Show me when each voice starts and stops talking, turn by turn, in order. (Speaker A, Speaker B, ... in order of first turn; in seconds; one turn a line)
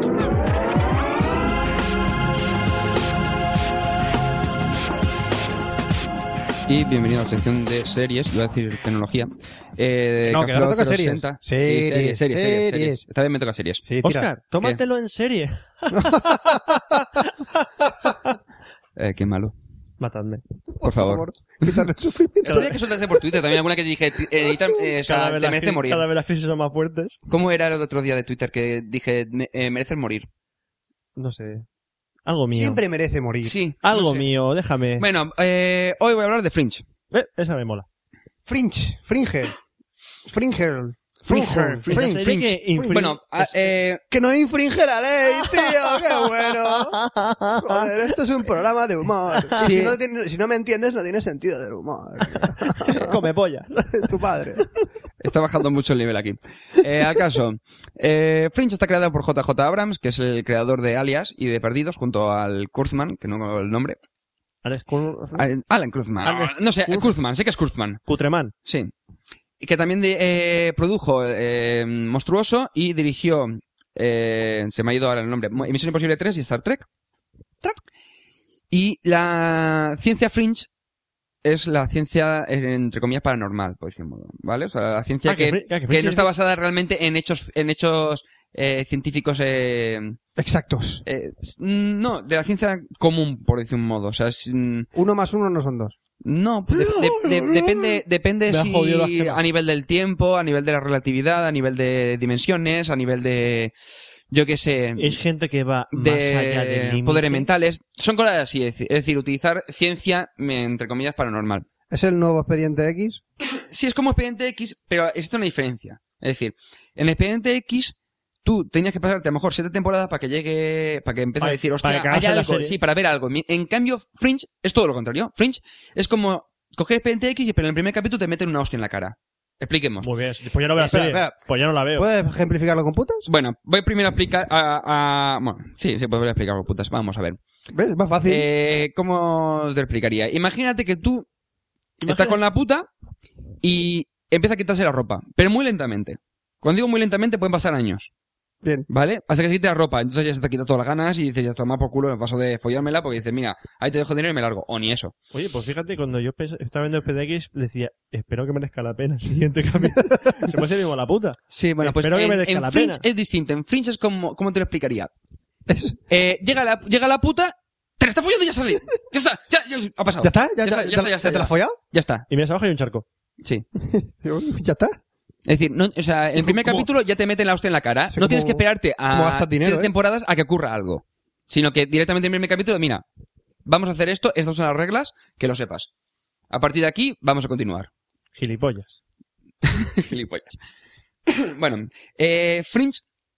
Speaker A: 6.7-13.8
Speaker B: 10.3-13.0
Speaker B: 13.8-14.3
Speaker C: 14.0-18.3
Speaker B: 15.9-17.0
Speaker A: 19.0-19.5
Speaker C: 20.0-20.4
Speaker B: 20.8-22.8
Speaker A: 20.8-21.9
Speaker A: 22.4-26.1
Speaker C: 22.4-22.8
Speaker C: 25.0-27.2
Speaker A: 27.3-30.3
Speaker C: 31.1-31.6
Speaker C: 32.2-32.8
Speaker B: 32.5-33.5
Speaker A: 33.4-34.3
Speaker C: 33.8-35.0
Speaker A: 35.0-36.8
Speaker C: 37.1-37.9
Speaker B: 38.5-39.5
Speaker B: 40.2-43.0
Speaker C: 41.3-43.5
Speaker A: 41.4-44.0
Speaker B: 44.1-47.0
Speaker C: 45.4-47.9
Speaker B: 47.5-53.1
Speaker C: 49.3-49.6
Speaker A: 49.6-50.0
Speaker C: 52.4-54.1
Speaker B: 54.0-54.6
Speaker A: 55.2-64.0
Speaker C: 64.6-65.5
Speaker A: 65.4-68.0
Speaker C: 66.2-67.1
Speaker C: 68.0-68.5
Speaker A: 68.7-68.9
Speaker A: 69.6-76.8
Speaker A: 78.7-80.7
Speaker A: 81.4-90.2
Speaker C: 85.2-86.3
Speaker B: 90.4-91.0
Speaker A: 91.0-94.9
Speaker B: 94.9-95.9
Speaker A: 96.2-103.7
Speaker B: 96.7-99.4
Speaker A: 104.3-105.2
Speaker C: 105.0-107.5
Speaker A: 105.9-111.7
Speaker B: 111.9-113.2
Speaker A: 113.7-130.1
Speaker C: 121.4-122.7
Speaker C: 130.0-132.1
Speaker B: 130.8-131.3
Speaker B: 131.9-133.2
Speaker A: 133.2-137.4
Speaker B: 137.7-138.5
Speaker A: 138.2-141.2
Speaker C: 142.0-142.4
Speaker A: 142.0-142.9
Speaker A: 143.6-148.1
Speaker A: 148.9-155.1
Speaker C: 155.3-163.0
Speaker B: 159.8-160.5
Speaker A: 161.5-165.1
Speaker B: 165.7-166.0
Speaker A: 166.1-172.2
Speaker B: 170.2-171.8
Speaker C: 172.3-173.0
Speaker B: 173.8-175.0
Speaker A: 175.4-183.0
Speaker B: 176.3-176.9
Speaker B: 178.1-179.9
Speaker A: 183.6-185.9
Speaker A: 186.5-187.9
Speaker C: 188.3-189.0
Speaker A: 189.6-190.6
Speaker A: 191.3-193.0